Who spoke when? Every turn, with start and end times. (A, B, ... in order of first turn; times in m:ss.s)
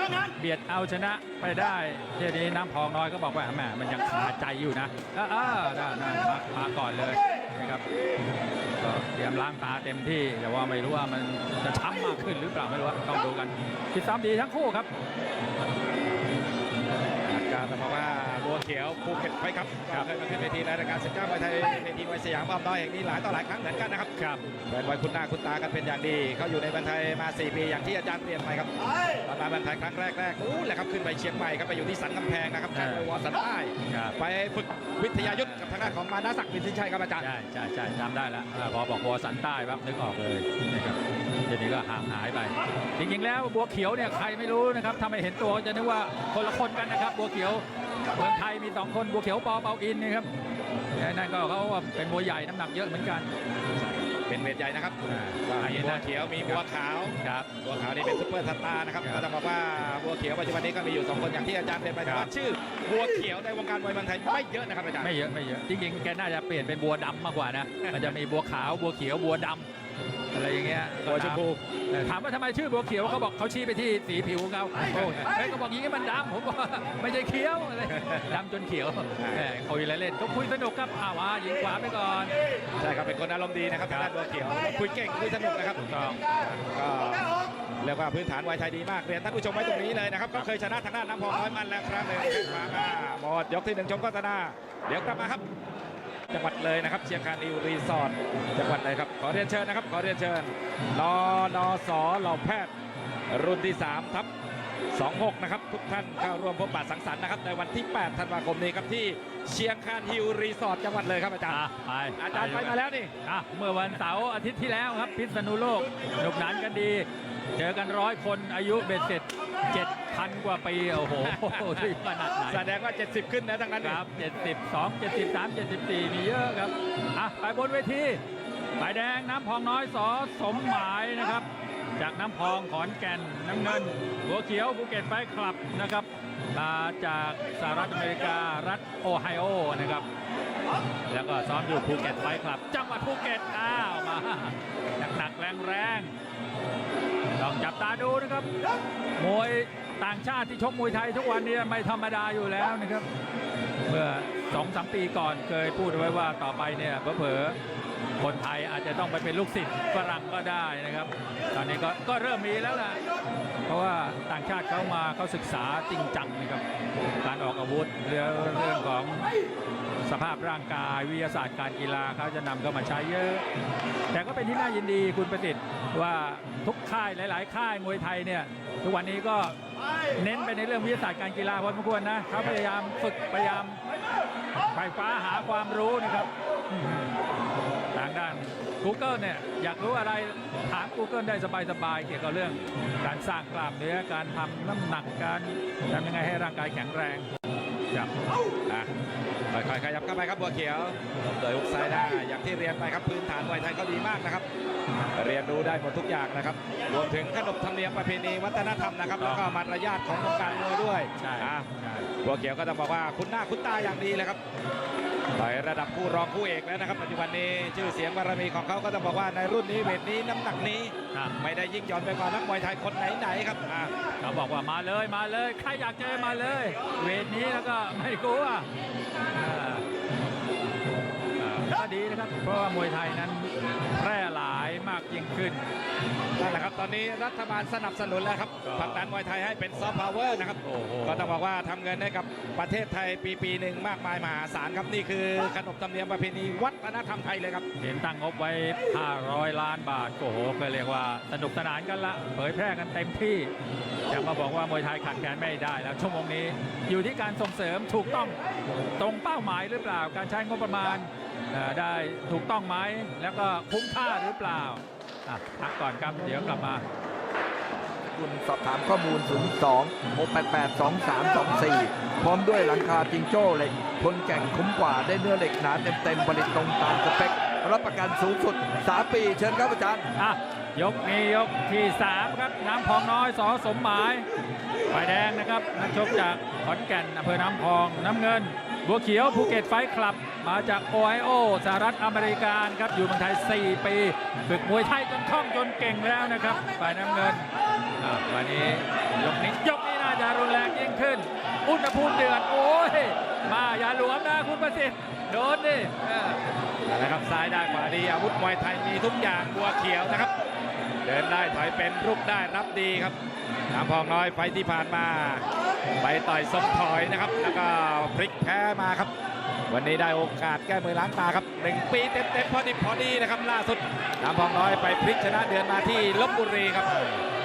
0:00.3-0:07.8 A
0:08.8-0:14.9 A
0:17.2-0:24.1 B
0:24.7-0:28.7 B
0:29.2-0:37.2 B
0:32.7-0:33.1 A
0:33.9-0:34.2 A
0:35.4-0:35.8 A
0:37.2-0:50.3 A
0:51.0-0:53.3 A
0:53.8-1:05.1 B
0:55.0-0:56.6 A
0:57.2-0:57.5 A
1:05.0-1:09.7 A
1:10.3-1:22.3 A
1:11.0-1:11.6 B
1:14.9-1:15.2 B
1:18.0-1:18.3 B
1:19.2-1:19.4 B
1:22.8-1:27.3 B
1:25.8-1:26.2 A
1:27.8-1:35.4 B
1:36.3-1:42.7 B
1:43.3-1:44.3 B
1:44.9-1:51.6 B
1:51.5-2:02.6 A
1:52.2-1:53.1 B
2:01.1-2:01.9 B
2:02.5-2:04.0 B
2:03.8-2:08.2 A
2:08.8-2:11.5 A
2:12.0-2:20.0 A
2:21.1-2:26.1 A
2:27.4-2:28.5 A
2:29.2-2:33.1 A
2:33.8-2:37.6 A
2:38.2-2:43.0 A
2:43.6-2:46.6 A
2:47.2-2:49.2 A
2:50.0-2:53.4 A
2:54.1-2:59.6 A
3:00.1-3:03.8 A
3:04.7-3:07.2 A
3:07.9-3:17.3 A
3:19.5-3:24.4 B
3:25.1-3:34.4 B
3:29.2-3:29.5 A
3:31.2-3:32.1 A
3:35.4-3:43.9 B
3:44.2-3:48.7 A
3:49.3-3:49.8 A
3:51.4-3:55.6 A
3:56.3-4:07.6 B
3:58.6-3:59.1 A
4:00.6-4:01.4 A
4:07.8-4:13.5 A
4:14.1-4:18.4 A
4:19.0-4:26.8 A
4:28.1-4:40.1 C
4:40.2-4:44.2 A
4:44.9-5:06.4 A
5:06.8-5:10.3 B
5:11.0-5:13.2 B
5:13.7-5:15.4 B
5:16.0-5:19.1 B
5:19.7-5:27.0 B